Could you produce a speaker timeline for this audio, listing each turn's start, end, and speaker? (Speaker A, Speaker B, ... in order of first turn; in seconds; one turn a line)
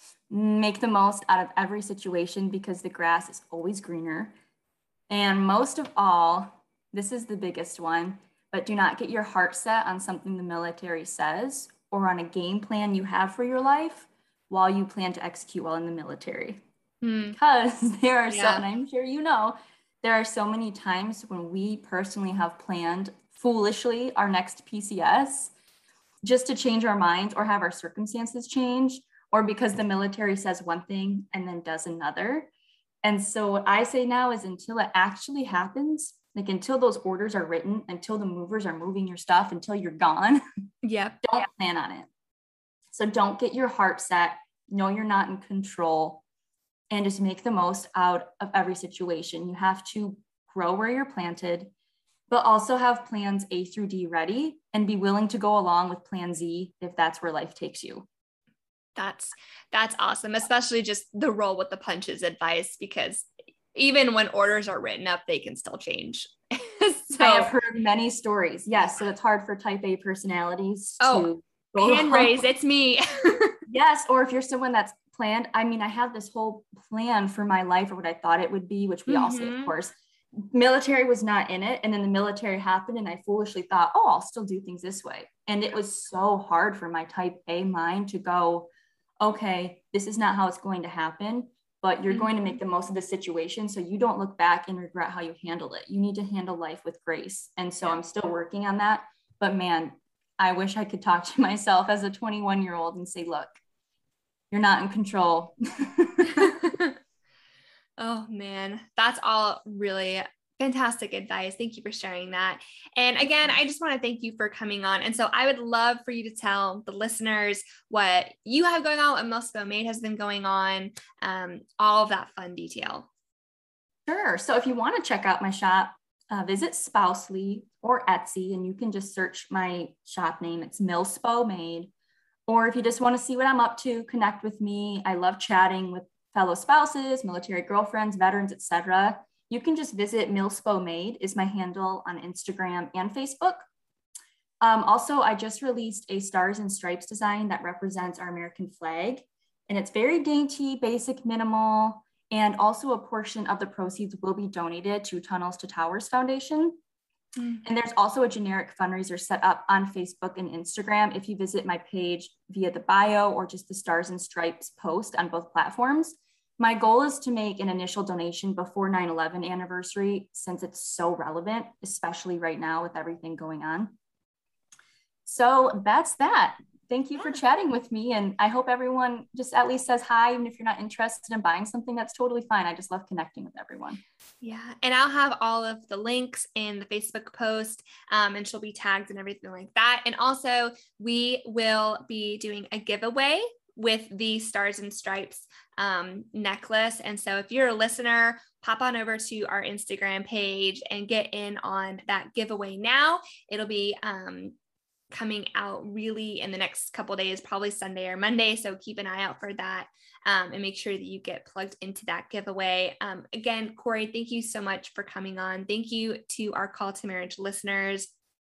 Speaker A: 0.3-4.3
Speaker A: 5.1-16.6
Speaker B: 17.0-17.4
Speaker A: 17.3-25.5
Speaker B: 18.3-18.6
Speaker A: 26.2-32.5
Speaker A: 33.0-40.4
Speaker B: 40.8-41.2
Speaker A: 41.2-42.1
Speaker A: 42.9-46.2
Speaker A: 46.9-51.7
Speaker A: 52.3-58.0
Speaker B: 59.0-67.5
Speaker A: 67.2-72.4
Speaker B: 71.0-73.5
Speaker A: 73.7-88.7
Speaker B: 79.1-79.7
Speaker A: 89.2-103.5
Speaker B: 92.1-92.6
Speaker A: 104.5-106.5
Speaker B: 106.4-106.9
Speaker B: 108.0-123.1
Speaker A: 124.1-131.9
Speaker A: 132.5-143.7
Speaker A: 144.6-156.8
Speaker B: 157.4-157.6
Speaker A: 157.6-173.9
Speaker A: 175.2-184.0
Speaker B: 184.4-204.5
Speaker B: 205.1-218.1